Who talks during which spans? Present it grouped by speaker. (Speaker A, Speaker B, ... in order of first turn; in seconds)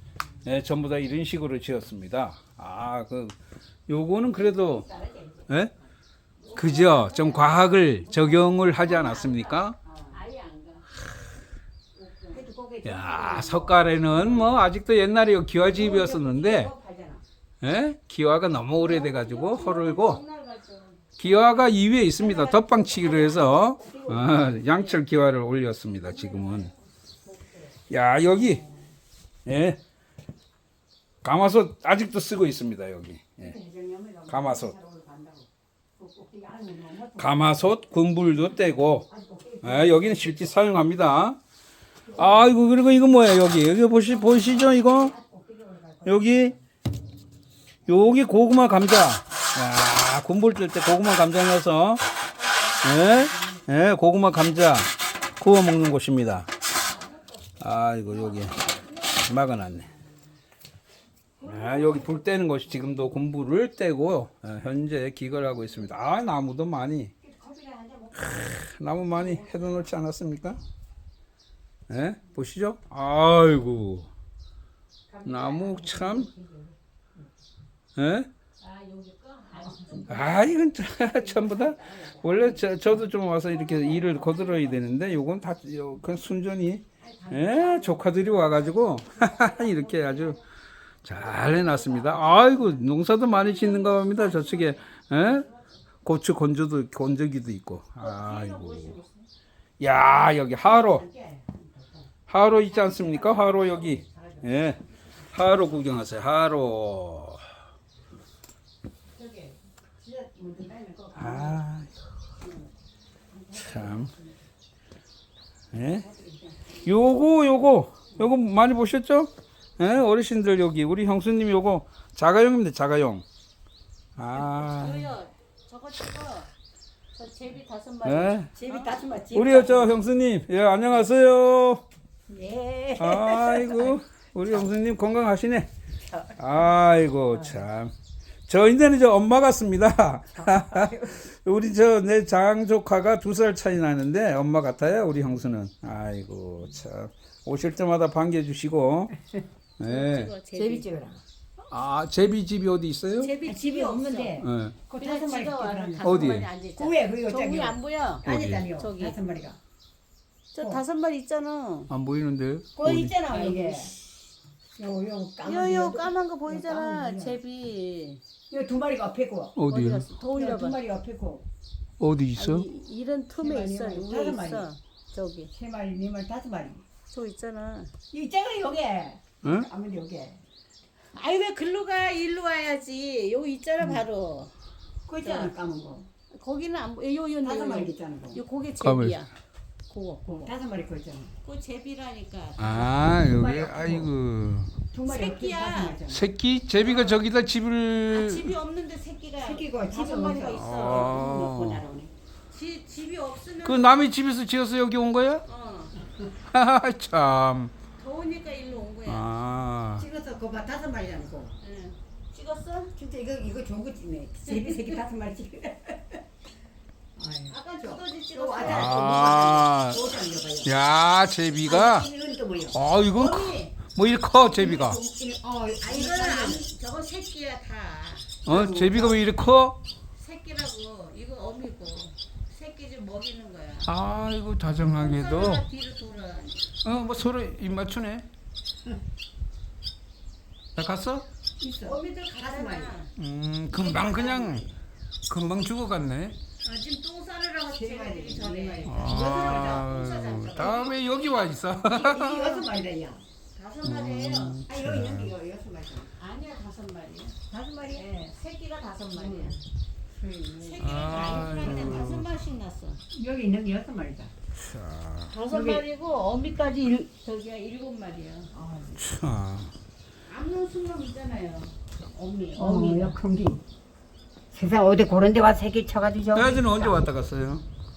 Speaker A: 0.4-3.4, 3.9-4.9, 5.5-5.7, 6.5-9.8, 12.8-16.7, 17.6-20.2, 21.2-26.7, 27.9-28.6, 29.4-29.8, 31.2-33.5, 34.3-34.7, 37.1-39.1, 39.6-41.4, 42.1-45.1, 46.0-46.5, 47.9-52.0, 52.8-56.5, 57.6-59.9, 61.4-67.1, 68.1-70.6, 71.9-74.1, 75.2-76.3, 78.0-78.3, 80.0-90.4, 91.0-95.5, 96.0-99.0, 99.8-101.0, 102.3-107.4, 111.1-111.9, 113.5-114.1, 115.7-116.0, 116.8-123.2, 124.2-125.1, 128.0-128.6, 129.3-131.8, 133.0-135.7, 136.3-137.9, 138.5-149.1, 149.8-150.3, 151.7-153.3, 154.4-154.8, 156.0-156.5, 158.3-158.6, 161.9-163.2, 169.6-170.1, 172.0-172.7, 179.4-179.7, 188.8-189.2, 192.6-194.8, 196.0-198.6, 200.5-201.8, 203.6-205.4, 206.5-207.7, 209.1-210.1, 218.6-220.1, 220.6-222.1, 222.7-225.0, 228.4-229.8, 233.8-235.7, 236.8-238.3, 240.7-241.2, 243.1-244.7, 245.3-246.4, 248.8-252.7, 253.8-255.3, 260.8-262.3, 264.6-265.4, 268.9-269.7, 276.3-277.6
Speaker B: 4.3-5.5, 6.5-8.8, 9.8-10.2, 12.3-14.0, 15.7-17.2, 22.2-24.9, 26.3-26.7, 27.2-27.7, 33.4-35.5, 36.0-37.3, 39.1-40.4, 44.3-46.5, 67.2-68.5, 69.1-69.8, 75.1-76.7, 79.6-80.0, 81.0-82.8, 87.0-88.2, 88.9-90.2, 100.6-102.1, 102.9-104.5, 109.1-111.6, 113.3-114.3, 115.9-116.6, 128.5-129.9, 132.3-134.0, 140.4-141.2, 150.5-151.2, 153.4-159.6, 162.8-163.9, 164.8-167.4, 168.5-169.6, 170.2-171.4, 173.3-174.7, 175.5-176.8, 178.1-180.4, 185.1-186.1, 187.4-188.4, 190.3-191.3, 193.1-194.1, 194.9-196.3, 199.4-202.1, 210.0-211.5, 212.9-216.2, 217.2-220.7, 221.6-222.8, 224.4-226.7, 228.5-229.2, 241.6-243.0, 247.7-250.0, 251.7-253.2, 254.7-256.1, 257.5-258.2, 259.1-259.6, 260.2-261.0, 263.1-264.3, 265.5-265.8, 268.5-269.0, 272.5-273.6, 274.5-277.0
Speaker C: 6.5-7.3, 8.8-10.8, 12.1-12.4, 18.8-21.0, 61.4-62.1, 78.6-80.7, 93.5-94.7, 98.0-99.3, 124.4-126.5, 127.1-129.0, 149.8-150.8, 153.2-154.4, 155.0-159.2, 160.5-161.9, 163.3-164.1, 165.4-168.2, 169.7-170.8, 172.3-175.5, 177.1-177.9, 181.1-184.5, 185.2-185.5, 186.3-189.3, 189.9-190.5, 191.4-193.1, 195.1-196.0, 196.8-197.2, 198.1-201.3, 202.5-204.0, 205.5-205.9, 208.0-209.3, 211.6-212.9, 214.4-215.0, 217.5-219.7, 223.0-223.8, 225.8-228.4, 230.1-233.9, 234.9-236.7, 241.8-243.1, 243.7-244.7, 246.6-251.6, 253.5-254.6, 256.1-257.4, 257.9-259.6, 260.6-263.0, 265.3-268.5, 270.3-273.2